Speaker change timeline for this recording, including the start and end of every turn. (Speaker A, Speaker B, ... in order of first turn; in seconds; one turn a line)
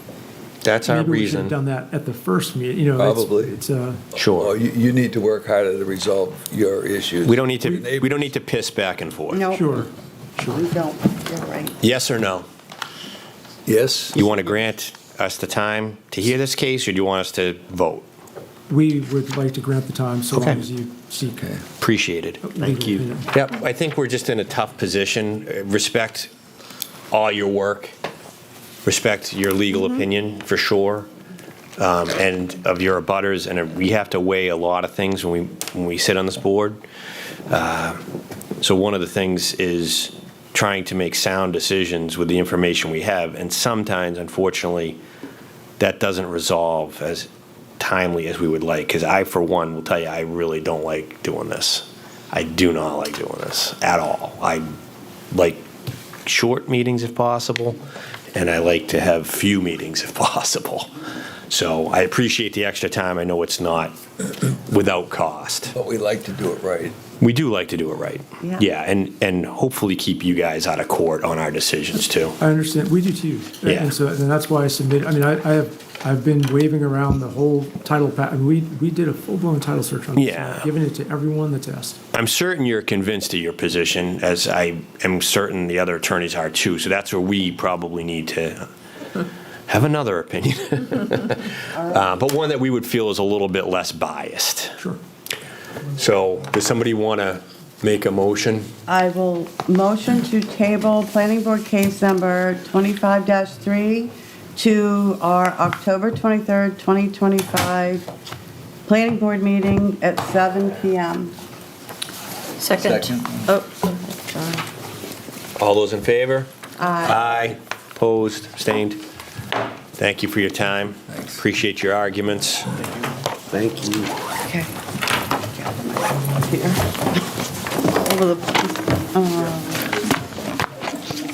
Speaker A: 0.6-1.6
Speaker B: 0.8-4.0
Speaker C: 3.0-3.6
Speaker A: 4.2-4.5
Speaker C: 4.2-8.2
Speaker A: 7.2-9.4
Speaker D: 9.3-9.8
Speaker B: 9.5-10.6
Speaker D: 10.4-11.8
Speaker A: 11.8-12.5
Speaker C: 13.7-14.2
Speaker A: 14.1-18.1
Speaker B: 18.7-21.6
Speaker A: 20.3-20.6
Speaker C: 21.4-21.6
Speaker A: 21.8-26.3
Speaker B: 22.4-23.3
Speaker A: 27.1-27.9
Speaker A: 28.9-31.1
Speaker A: 31.8-36.8
Speaker A: 37.5-38.0
Speaker A: 38.6-45.0
Speaker A: 45.8-54.7
Speaker A: 55.3-55.7
Speaker A: 56.3-57.8
Speaker A: 58.3-60.9
Speaker A: 61.5-64.0
Speaker A: 64.5-65.7
Speaker C: 65.7-67.0
Speaker A: 67.2-72.4
Speaker B: 72.4-82.0
Speaker A: 73.7-73.9
Speaker A: 80.2-80.7
Speaker A: 82.1-88.7
Speaker A: 89.7-94.8
Speaker D: 91.7-92.1
Speaker A: 96.0-98.7
Speaker D: 98.9-108.1
Speaker D: 108.9-111.3
Speaker C: 112.7-113.6
Speaker D: 113.7-114.6
Speaker A: 115.6-116.5
Speaker D: 116.8-117.2
Speaker A: 117.0-119.0
Speaker A: 120.0-122.7
Speaker A: 123.5-124.1
Speaker D: 125.5-127.2
Speaker D: 128.0-129.9